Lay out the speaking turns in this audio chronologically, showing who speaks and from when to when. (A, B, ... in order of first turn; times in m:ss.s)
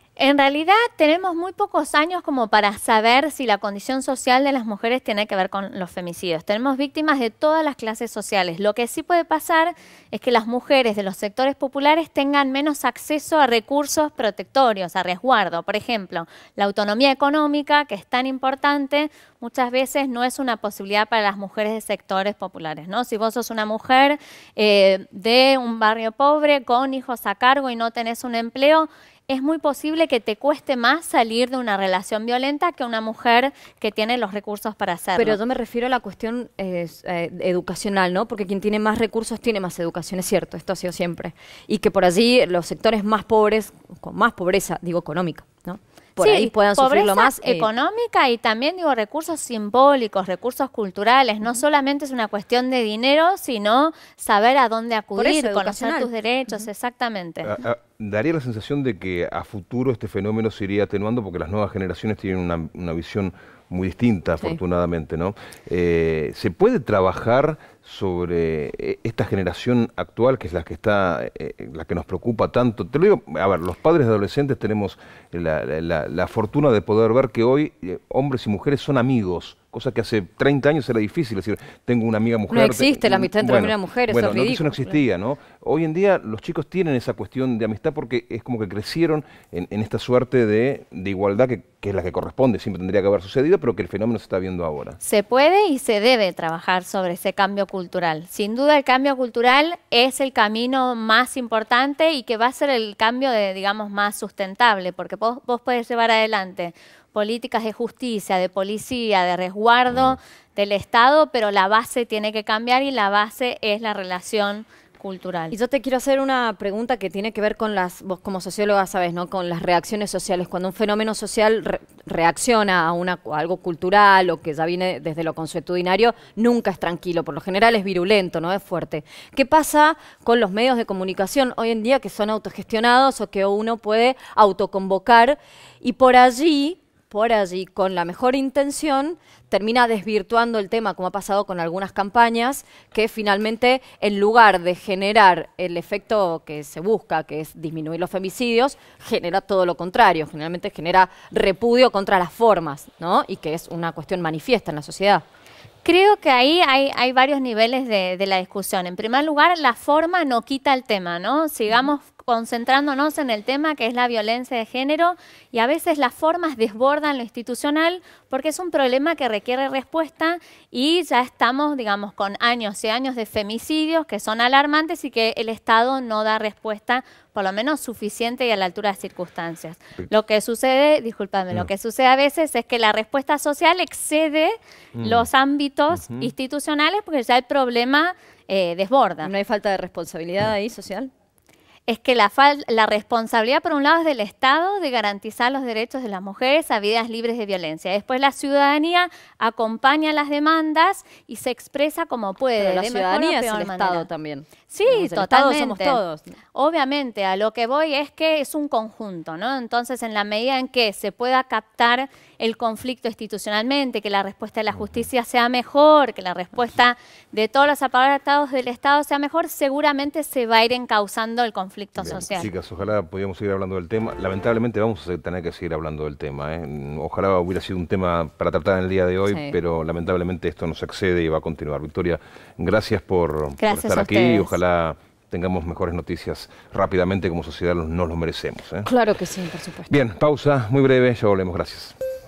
0:00.2-0:35.4 A
0:35.2-0:47.7 B
0:46.2-0:57.6 A
0:55.2-0:56.1 B
0:57.4-1:35.0 C
1:22.5-1:25.0 B
1:35.0-1:55.6 A
1:55.5-2:35.2 B
2:35.8-3:09.3 A
3:05.0-3:05.3 C
3:05.9-3:06.3 C
3:09.2-3:11.1 B
3:11.9-3:24.1 A
3:22.6-3:26.3 B
3:24.7-3:26.0 A
3:26.5-3:42.5 A
3:42.0-3:58.9 C
3:49.2-3:49.6 B
3:53.6-3:54.6 A
3:58.8-3:59.9 B
3:59.9-4:01.9 C